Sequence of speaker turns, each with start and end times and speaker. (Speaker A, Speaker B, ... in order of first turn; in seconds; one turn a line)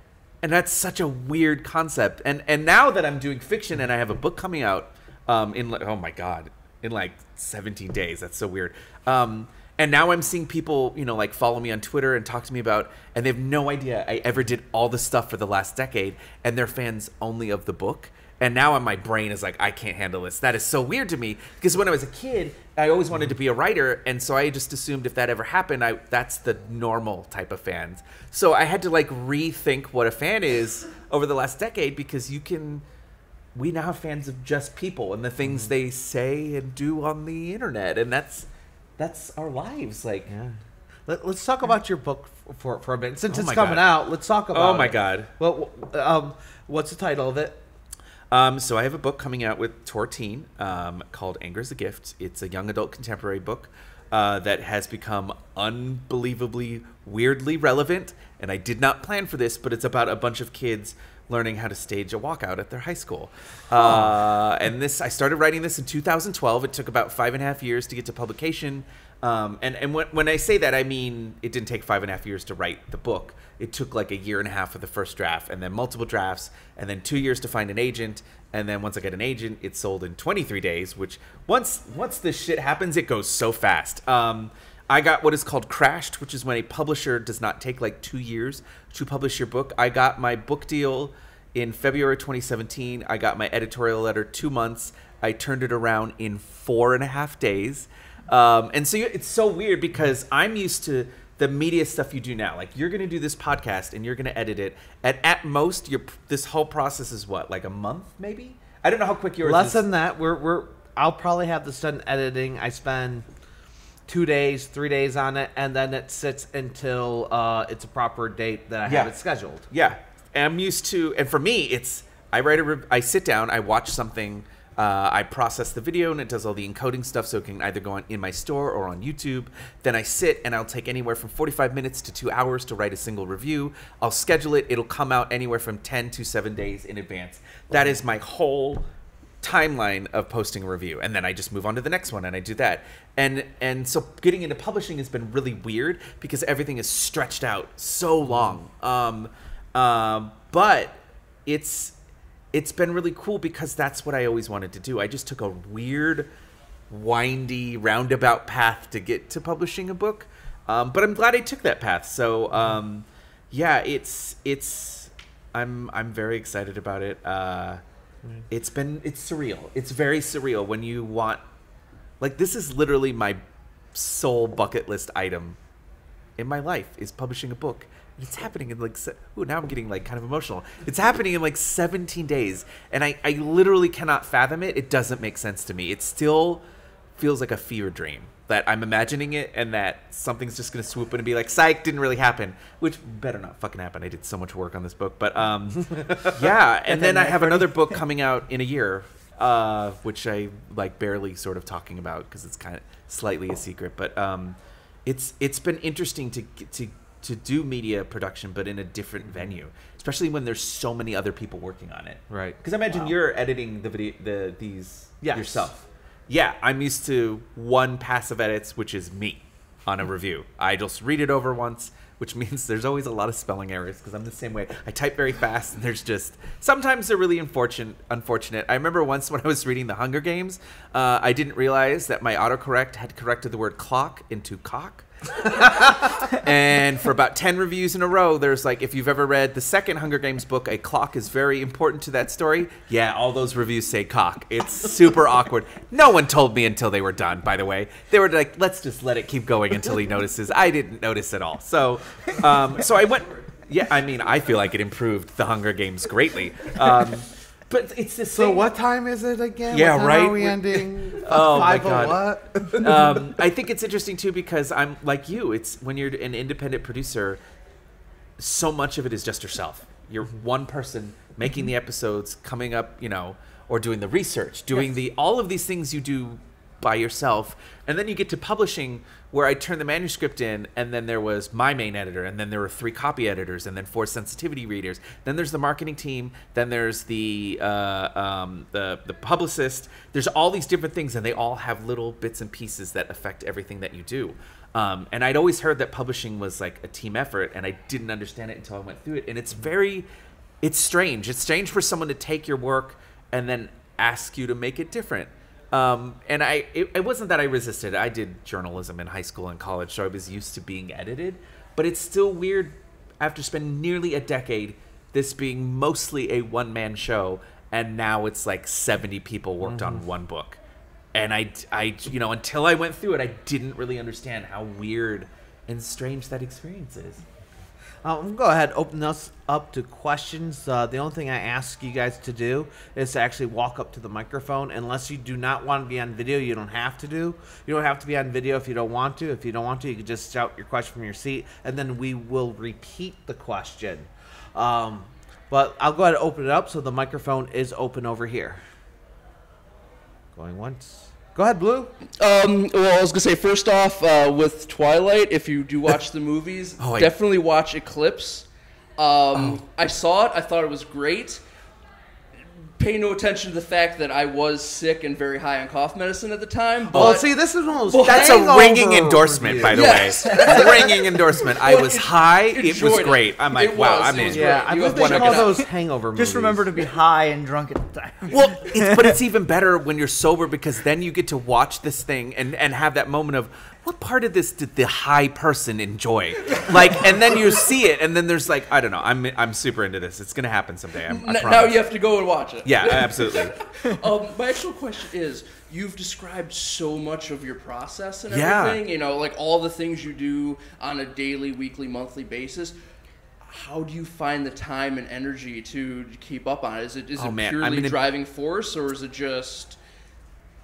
Speaker A: 0.4-32.8
Speaker A: 33.5-38.5
Speaker A: 39.0-40.3
Speaker B: 40.3-40.6
Speaker B: 41.1-47.6
Speaker A: 43.3-43.9
Speaker A: 44.5-45.3
Speaker A: 48.3-109.9
Speaker B: 109.4-113.2
Speaker B: 114.1-119.7
Speaker A: 118.9-119.2
Speaker A: 119.7-138.9
Speaker A: 139.4-152.0
Speaker A: 152.5-156.3
Speaker A: 156.9-167.8
Speaker A: 168.5-171.4
Speaker A: 172.2-173.4
Speaker A: 173.9-175.6
Speaker A: 176.4-186.6
Speaker A: 187.2-258.7
Speaker B: 196.0-196.3
Speaker C: 197.0-197.7
Speaker B: 212.3-213.1
Speaker B: 215.2-215.7
Speaker B: 258.3-263.2
Speaker A: 259.7-267.4
Speaker A: 268.4-300.1
Speaker A: 300.6-320.6
Speaker A: 321.1-327.2
Speaker B: 328.0-348.6
Speaker B: 350.4-351.9
Speaker D: 352.2-361.4
Speaker A: 356.8-357.1
Speaker D: 362.8-367.3
Speaker A: 366.9-367.2
Speaker B: 366.9-370.1
Speaker D: 367.9-368.4
Speaker A: 368.0-375.5
Speaker D: 369.7-375.6
Speaker B: 374.2-376.7
Speaker C: 376.1-379.1
Speaker A: 378.3-391.8
Speaker D: 391.1-402.8
Speaker A: 392.6-393.6
Speaker A: 398.3-398.8
Speaker D: 403.4-409.8
Speaker A: 407.2-408.0